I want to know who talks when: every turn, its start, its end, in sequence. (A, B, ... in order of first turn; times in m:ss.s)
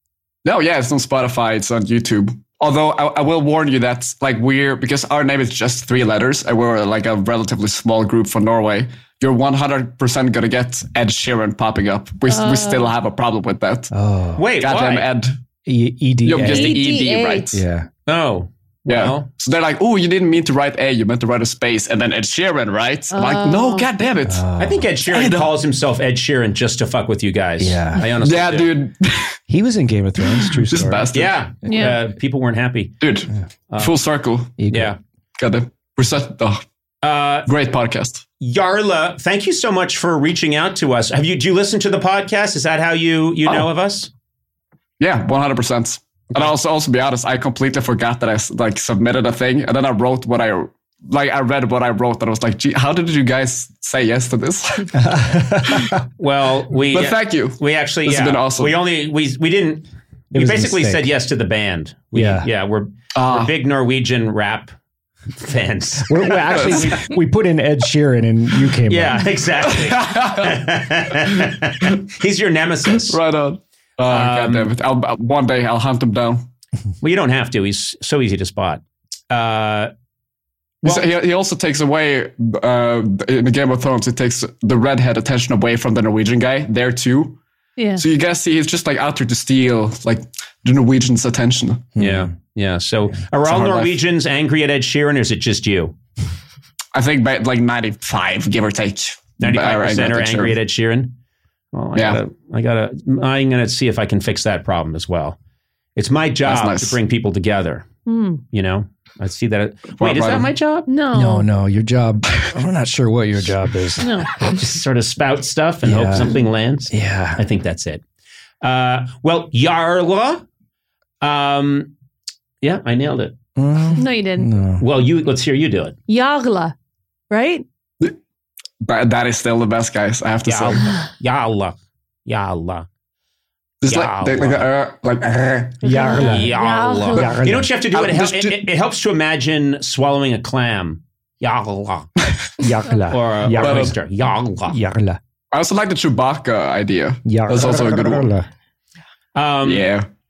0:00.4-0:15.4 A
0:12.3-0:12.9 B
0:13.9-0:14.4 C
0:14.4-0:15.1 D
0:15.6-0:16.8 C
0:16.2-0:17.6 A
0:16.4-0:17.5 B
0:17.5-0:17.9 C
0:18.1-0:19.3 D
0:18.8-0:25.6 A
0:23.1-0:23.9 B
0:24.2-0:24.9 C
0:24.6-0:28.7 D
0:27.6-0:28.1 C
0:28.2-0:29.4 A
0:29.5-0:31.8 C
0:30.2-0:31.4 A
0:31.1-0:32.9 D
0:31.6-0:32.0 B
0:33.0-0:34.6 A
0:33.7-0:33.9 D
0:34.6-0:34.9 C
0:34.7-0:35.0 D
0:35.4-0:36.6 A
0:37.0-0:37.5 D
0:37.4-0:38.2 A
0:38.4-0:44.1 D
0:45.0-0:55.0 A
0:54.9-0:56.0 C
0:55.6-0:56.0 A
0:56.2-1:04.7 D
0:56.9-0:58.8 A
1:00.3-1:01.1 C
1:02.1-1:02.5 C
1:03.1-1:03.6 A
1:05.3-1:07.0 D
1:06.0-1:09.3 C
1:06.6-1:07.0 A
1:08.9-1:13.2 D
1:09.6-1:11.5 A
1:12.9-1:16.5 A
1:14.1-1:14.7 D
1:17.0-1:19.9 D
1:20.8-1:27.4 A
1:27.8-1:28.0 B
1:28.0-1:31.9 A
1:32.0-1:32.3 C
1:32.0-1:35.9 D
1:33.4-1:34.0 A
1:36.9-1:40.6 A
1:39.4-1:41.1 D
1:41.7-1:45.4 D
1:41.9-1:42.2 A
1:46.0-1:47.9 D
1:46.4-1:47.0 A
1:48.1-1:48.4 B
1:48.5-1:50.9 D
1:50.0-1:50.5 A
1:50.9-1:51.5 B
1:51.1-1:54.6 C
1:54.0-1:54.5 B
1:54.4-1:58.0 D
1:55.8-1:56.4 C
1:56.9-1:57.4 C
1:58.6-2:00.4 D
2:01.2-2:01.9 D
2:02.6-2:03.4 D
2:03.6-2:04.8 C
2:04.0-2:04.5 B
2:04.8-2:06.0 D
2:06.1-2:06.7 B
2:07.3-2:07.6 B
2:08.8-2:10.9 A
2:10.4-2:12.9 D
2:13.8-2:16.0 A
2:13.8-2:14.7 D
2:15.8-2:16.5 C
2:15.8-2:17.3 B
2:16.2-2:22.1 D
2:17.1-2:17.7 C
2:17.4-2:18.7 A
2:22.6-2:24.0 C
2:23.1-2:24.8 D
2:23.6-2:24.0 A
2:24.7-2:25.2 C
2:25.5-2:28.3 A
2:27.2-2:28.5 C
2:29.3-2:29.9 D
2:29.6-2:30.1 A